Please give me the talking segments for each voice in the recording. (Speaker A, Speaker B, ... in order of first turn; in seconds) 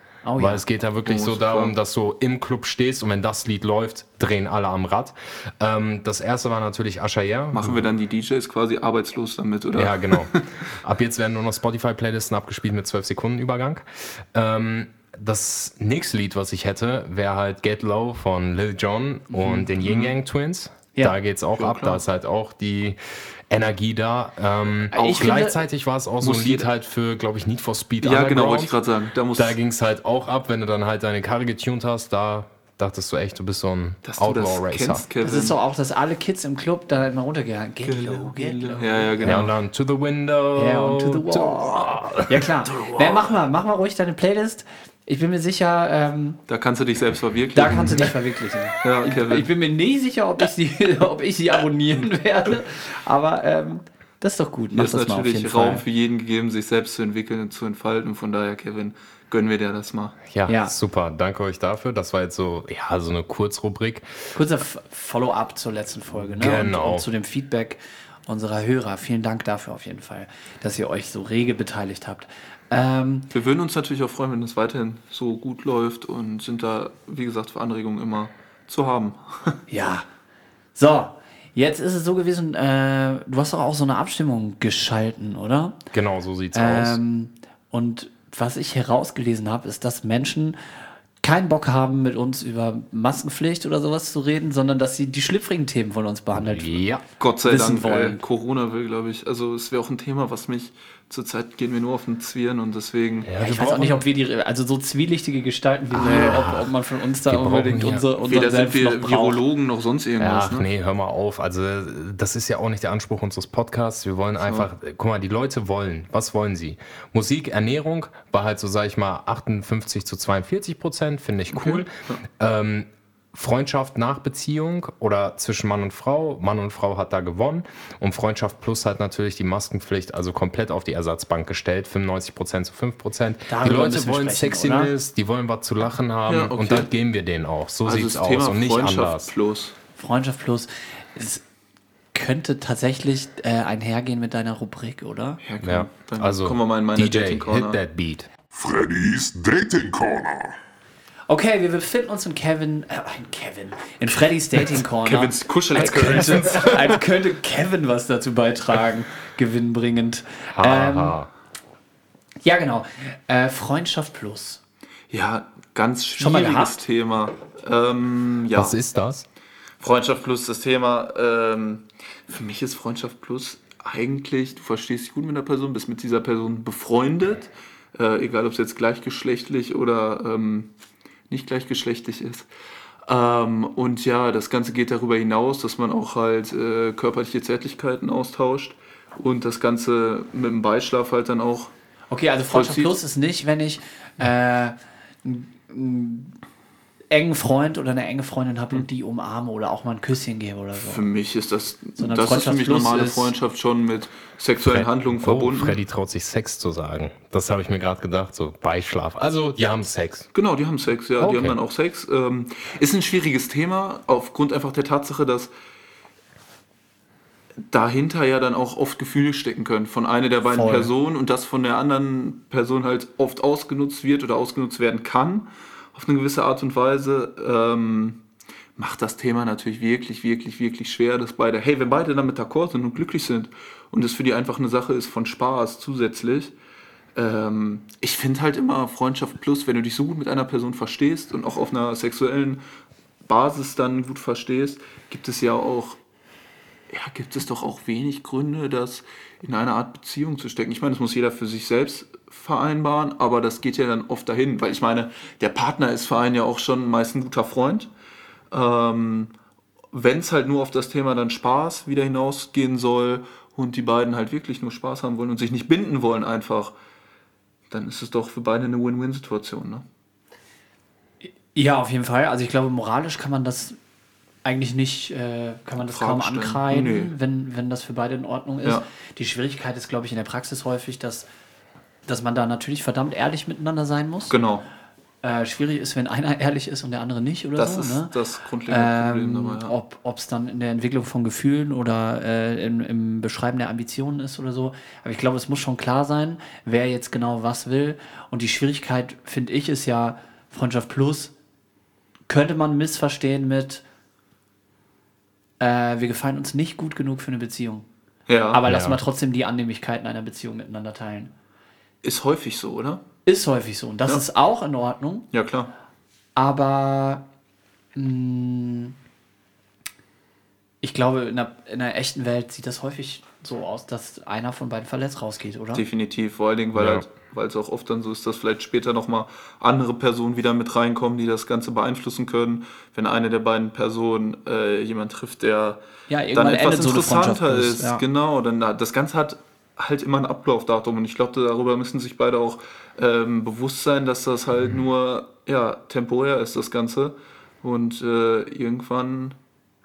Speaker A: 0.2-0.6, 19.4-19.6, 24.9-25.6, 35.2-39.5, 40.6-46.4, 47.5-55.8, 60.5-60.7, 64.3-73.3, 79.7-80.1, 80.8-85.8, 86.5-90.6, 91.2-96.8, 97.5-98.2, 103.4-109.4, 133.5-134.9, 140.0-141.4, 142.1-145.4, 151.3-161.2, 162.4-164.6, 166.2-166.8, 192.1-196.4, 197.1-201.1, 202.0-203.3, 220.5-220.9, 271.2-273.8, 274.4-281.3, 282.1-284.4, 285.2-288.1, 288.7-301.3, 302.3-303.8, 305.6-307.9, 308.5-311.3, 313.3-315.3, 316.4-317.2, 318.0-318.9, 320.8-325.8, 336.1-338.0
Speaker B: 0.4-7.8, 9.8-23.0, 23.5-28.8, 29.4-35.0, 39.2-42.5, 60.3-64.2, 66.4-67.1, 85.9-87.0, 96.4-97.0, 103.2-103.9, 105.9-106.7, 107.3-108.0, 110.2-139.3, 145.6-148.3, 160.5-161.3, 168.5-169.3, 204.6-210.3, 211.2-211.6, 308.7-309.0, 326.8-327.1
Speaker C: 1.0-1.7, 7.5-10.6, 19.7-20.1, 21.5-22.0, 24.9-25.4, 26.2-26.7, 28.0-29.6, 34.0-35.6, 37.8-39.5, 42.7-43.3, 46.5-48.2, 48.8-49.5, 54.7-60.2, 73.3-79.6, 97.2-103.9, 106.0-106.4, 108.2-110.7, 121.5-122.2, 136.3-136.9, 137.8-139.8, 145.4-147.8, 154.8-157.0, 165.1-168.8, 169.8-180.7, 181.3-182.5, 183.1-191.7, 192.5-192.9, 200.8-205.8, 210.3-215.5, 217.7-228.2, 228.8-236.5, 237.2-242.6, 243.2-246.0, 246.9-257.9, 258.5-259.3, 259.9-266.7, 267.7-269.8, 275.8-277.1, 284.3-284.6, 287.6-289.7, 308.3-308.6, 312.0-313.0, 315.3-315.7, 325.7-335.8, 336.4-349.4
Speaker D: 148.5-150.6